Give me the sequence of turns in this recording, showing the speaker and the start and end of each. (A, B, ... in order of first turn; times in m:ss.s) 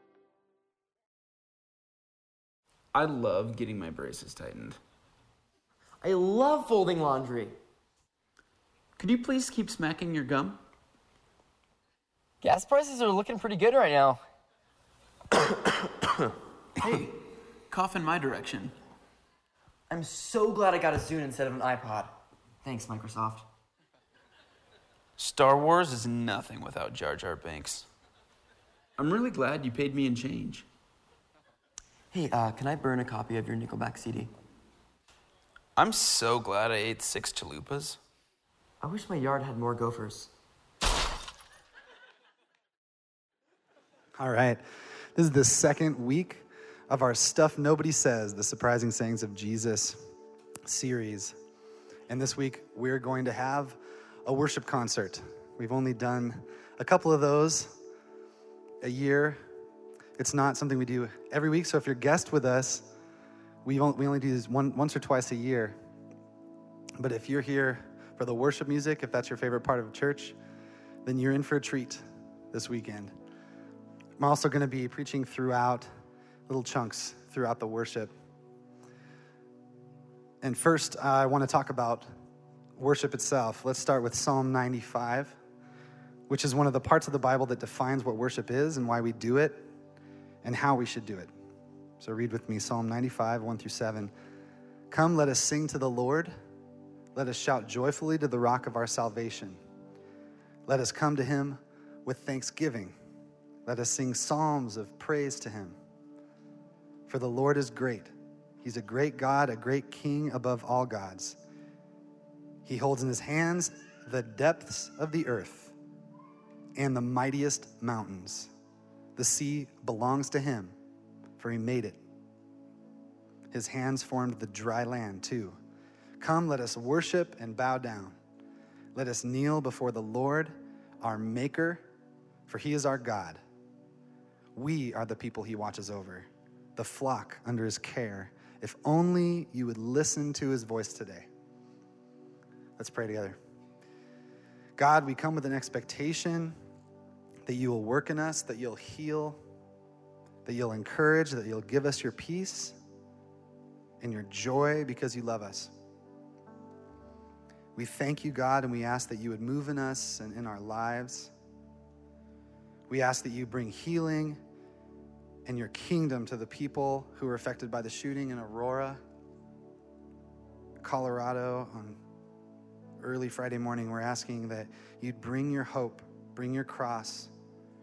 0:02.9-0:04.8 A
0:06.0-0:07.6 B
0:09.0-0:10.6 A
0:12.4-0:14.2 B
0:16.8-0:17.1 A
0:17.7-0:18.7 A
0:19.9-0:22.1 B
0:22.6-0:23.4 B
0:25.2-0:27.9 A
0:29.0-0:30.7 A
0:32.1-0:34.3 B
0:35.8-0:38.0 A
0:38.8-0:40.3 B
0:44.2-0:44.6 C
0:45.2-0:50.0 C
0:50.7-0:51.4 C
0:52.1-0:57.8 C
0:58.8-0:59.4 C
1:00.2-1:02.9 C
1:03.6-1:05.8 C
1:07.0-1:10.4 C
1:11.0-1:13.1 C
1:14.2-1:15.9 C
1:16.5-1:18.1 C
1:20.4-1:22.1 C
1:22.8-1:25.4 C
1:26.3-1:29.7 C
1:30.4-1:31.3 C
1:32.0-1:34.1 C
1:34.9-1:36.3 C
1:37.2-1:39.6 C
1:40.7-1:42.9 C
1:43.7-1:45.8 C
1:47.1-1:51.4 C
1:52.7-1:55.7 C
1:56.8-1:58.5 C
1:59.2-2:00.7 C
2:01.4-2:02.0 C
2:03.5-2:05.6 C
2:06.2-2:08.2 C
2:09.0-2:11.8 C
2:12.5-2:13.4 C
2:14.6-2:21.3 C
2:22.8-2:23.4 C
2:24.8-2:26.6 C
2:27.5-2:29.4 C
2:30.4-2:32.8 C
2:34.0-2:35.7 C
2:37.8-2:41.3 C
2:42.9-2:44.4 C
2:45.5-2:49.0 C
2:50.8-2:52.0 C
2:53.0-2:57.3 C